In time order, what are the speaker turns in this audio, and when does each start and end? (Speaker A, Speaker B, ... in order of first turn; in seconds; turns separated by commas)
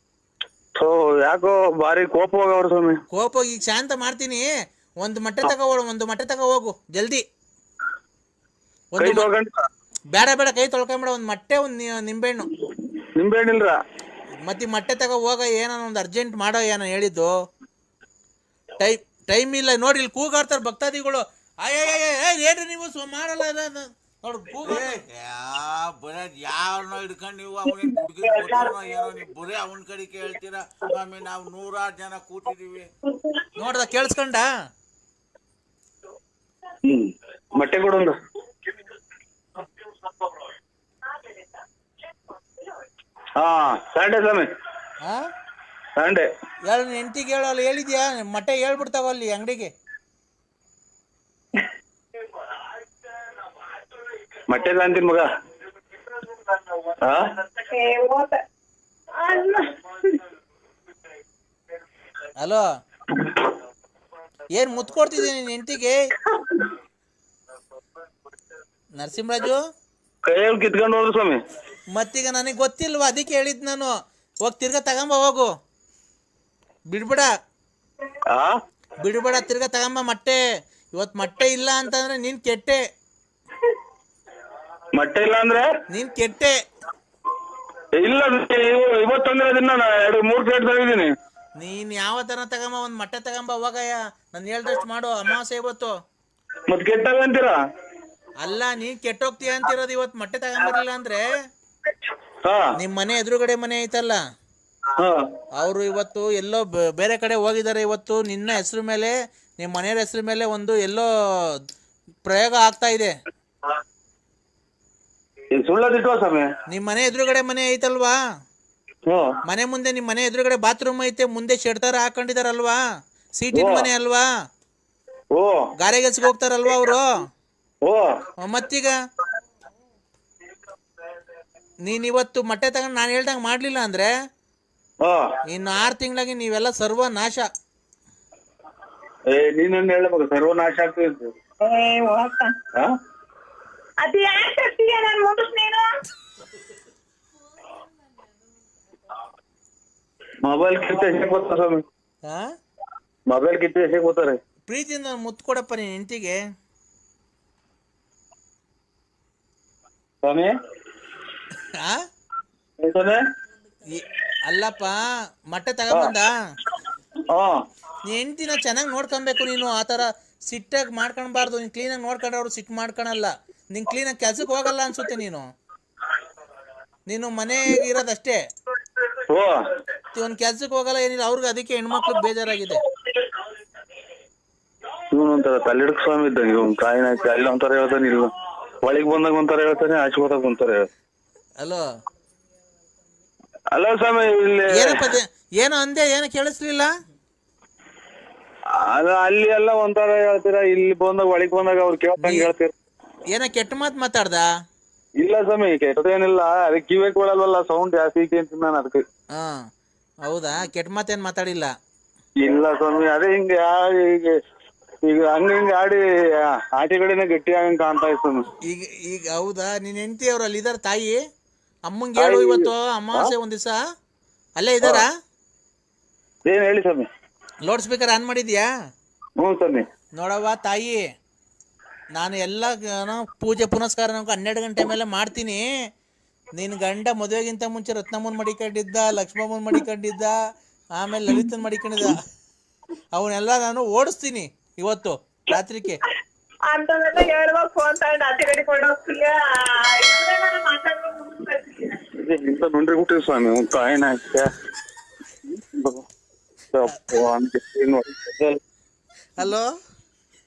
Speaker A: 0.8-3.0, Speaker B: 3.1-4.5, Speaker B: 5.0-7.2, Speaker B: 8.9-9.3, Speaker A: 9.0-9.6, Speaker B: 10.1-12.5, Speaker A: 13.2-13.8, Speaker B: 14.4-17.3, Speaker B: 18.8-25.0, Speaker C: 24.6-32.9, Speaker D: 27.7-29.2, Speaker D: 33.0-33.5, Speaker B: 33.5-34.5, Speaker A: 36.8-38.2, Speaker A: 43.4-44.5, Speaker A: 46.0-46.3, Speaker B: 46.7-49.7, Speaker A: 54.5-55.3, Speaker A: 57.0-57.3, Speaker D: 57.6-58.4, Speaker D: 59.1-60.2, Speaker B: 64.5-66.0, Speaker B: 69.0-69.6, Speaker A: 70.2-71.4, Speaker B: 71.9-73.9, Speaker B: 74.4-75.5, Speaker B: 76.9-77.3, Speaker A: 78.3-78.6, Speaker B: 79.0-80.4, Speaker B: 81.0-82.8, Speaker A: 84.9-85.7, Speaker B: 85.9-86.5, Speaker A: 88.0-91.1, Speaker B: 91.6-95.9, Speaker A: 96.7-97.5, Speaker B: 98.4-101.4, Speaker A: 102.4-102.7, Speaker B: 102.8-104.2, Speaker A: 105.0-105.3, Speaker B: 105.6-111.1, Speaker B: 112.2-113.1, Speaker A: 115.5-116.5, Speaker B: 116.7-118.2, Speaker A: 119.1-119.4, Speaker B: 119.5-122.8, Speaker B: 123.4-124.2, Speaker A: 123.5-123.9, Speaker A: 125.3-125.7, Speaker B: 125.8-127.2, Speaker A: 127.8-128.1, Speaker B: 128.4-128.9, Speaker B: 131.8-134.1, Speaker A: 135.0-135.3, Speaker B: 135.5-137.5, Speaker A: 139.3-141.3, Speaker D: 141.6-142.5, Speaker D: 144.0-145.9, Speaker A: 150.4-151.8, Speaker A: 153.3-154.4, Speaker B: 154.7-156.4, Speaker A: 160.2-160.5, Speaker A: 162.8-163.2, Speaker B: 163.9-166.3, Speaker A: 167.3-167.6, Speaker B: 168.1-175.5, Speaker B: 177.1-178.4, Speaker A: 179.3-179.6, Speaker B: 180.1-182.8, Speaker A: 185.1-188.3, Speaker A: 188.8-190.9, Speaker A: 193.7-195.1, Speaker B: 194.7-196.9, Speaker A: 198.7-202.7, Speaker B: 202.2-202.5, Speaker B: 203.3-204.4, Speaker A: 205.2-209.0, Speaker B: 209.3-209.7, Speaker B: 210.3-211.7, Speaker A: 212.4-214.4, Speaker A: 215.0-218.5, Speaker B: 218.7-221.2, Speaker B: 221.9-223.8, Speaker A: 222.2-223.3, Speaker B: 224.6-225.1, Speaker A: 226.4-227.1, Speaker B: 227.7-228.7, Speaker A: 229.4-229.8, Speaker B: 230.2-231.0, Speaker B: 232.2-235.6, Speaker B: 236.6-240.3, Speaker B: 241.0-242.2, Speaker B: 243.2-246.0, Speaker D: 246.7-252.0, Speaker A: 252.2-254.5, Speaker A: 255.6-256.0, Speaker A: 256.7-258.6, Speaker B: 259.4-259.7